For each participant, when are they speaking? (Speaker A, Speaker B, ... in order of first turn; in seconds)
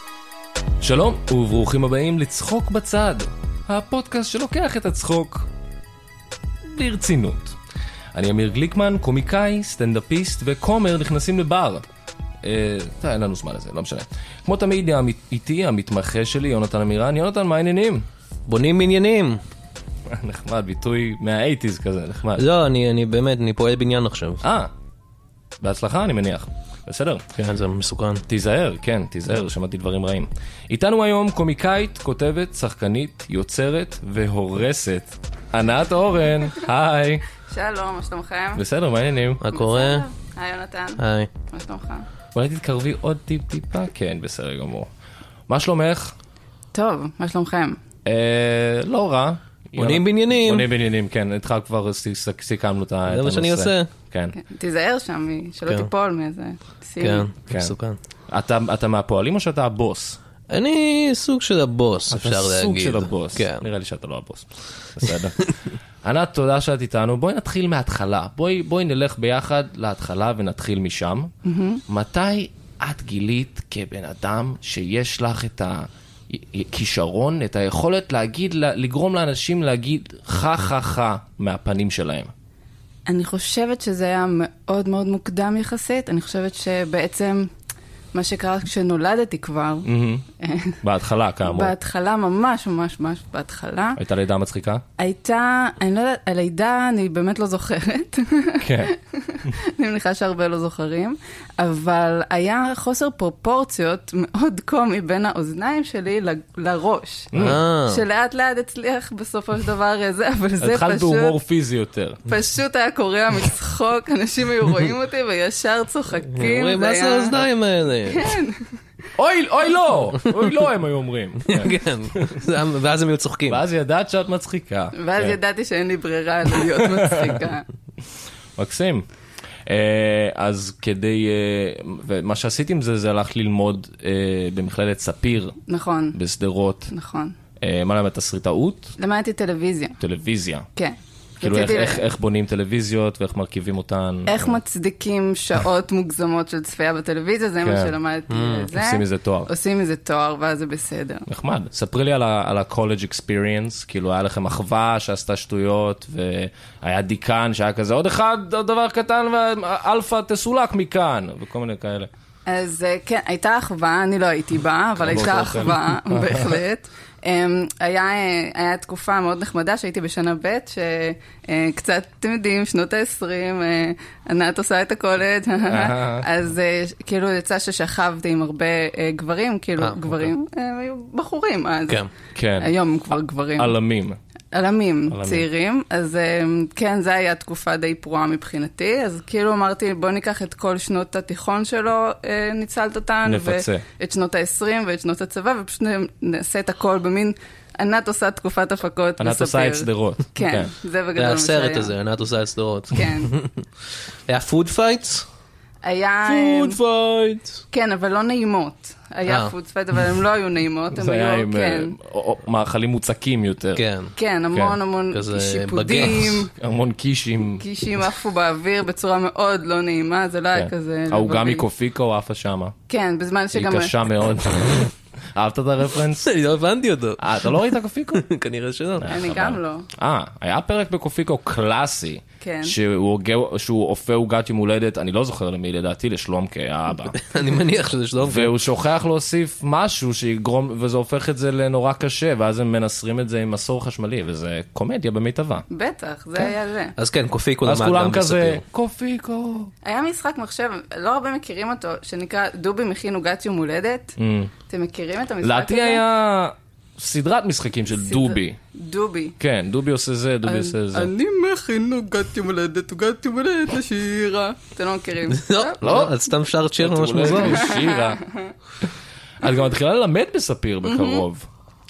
Speaker A: 0.8-5.5, 6.6-7.6, 8.1-11.8, 12.4-18.1, 20.1-22.4, 24.4-24.7, 25.6-27.2, 28.3-37.2, 38.5-39.4, 42.3-44.9, 45.5-46.1, 48.0-54.3, 57.5-57.7, 58.3-60.2, 62.1-65.5, 66.0-71.3, 71.9-82.3, 89.8-90.2, 90.8-91.7, 94.0-94.8, 98.6-98.9, 107.3-107.6, 110.6-112.2, 119.2-122.4, 123.5-125.4, 126.8-127.4, 128.6-129.1, 129.7-135.6, 136.1-136.9, 137.6-138.9, 140.0-140.7, 141.4-144.6, 147.6-147.9, 148.7-149.5, 151.3-162.1, 165.0-166.6, 175.7-176.3, 182.3-182.7, 183.6-184.2, 185.1-185.4, 193.2-193.8, 199.2-200.7, 210.9-213.8, 214.5-214.8, 216.5-217.6, 220.5-222.7, 223.5-226.3, 227.2-228.2, 229.0-237.2, 238.2-245.6, 247.6-249.7, 254.2-254.5, 255.4-258.6, 259.4-261.1, 265.8-266.2, 266.8-268.2, 269.4-271.5
Speaker B: 18.5-19.4, 22.4-24.4, 27.4-28.2, 39.4-40.0, 41.0-41.3, 49.8-50.7, 53.1-53.9, 57.0-58.0, 60.5-63.6, 107.3-108.0, 116.3-118.3, 121.4-123.6, 148.3-148.7, 201.2-203.5, 204.3-205.2, 206.2-207.6, 209.3-209.5, 213.8-214.1, 215.1-216.5, 226.2-227.3, 228.1-229.1, 237.1-238.5, 247.0-248.6, 265.3-267.7
Speaker C: 37.5-38.6, 39.5-42.0, 46.7-47.8, 54.3-57.3, 71.4-71.8, 83.1-87.5, 88.1-89.9, 90.4-90.8, 91.4-94.0, 95.0-111.3, 112.2-117.4, 118.1-118.7, 124.9-127.7, 135.7-136.2, 136.9-137.3, 139.0-139.9, 140.8-142.0, 144.2-151.3, 162.5-182.0, 182.6-183.7, 184.5-201.9, 202.9-203.3, 205.8-206.8, 207.7-211.9, 214.2-216.5, 217.6-221.6, 222.9-224.1, 229.1-229.9, 232.4-232.7, 245.7-246.9, 249.8-254.2, 254.7-256.0, 258.0-259.4, 260.4-265.9, 267.5-268.5, 270.8-271.2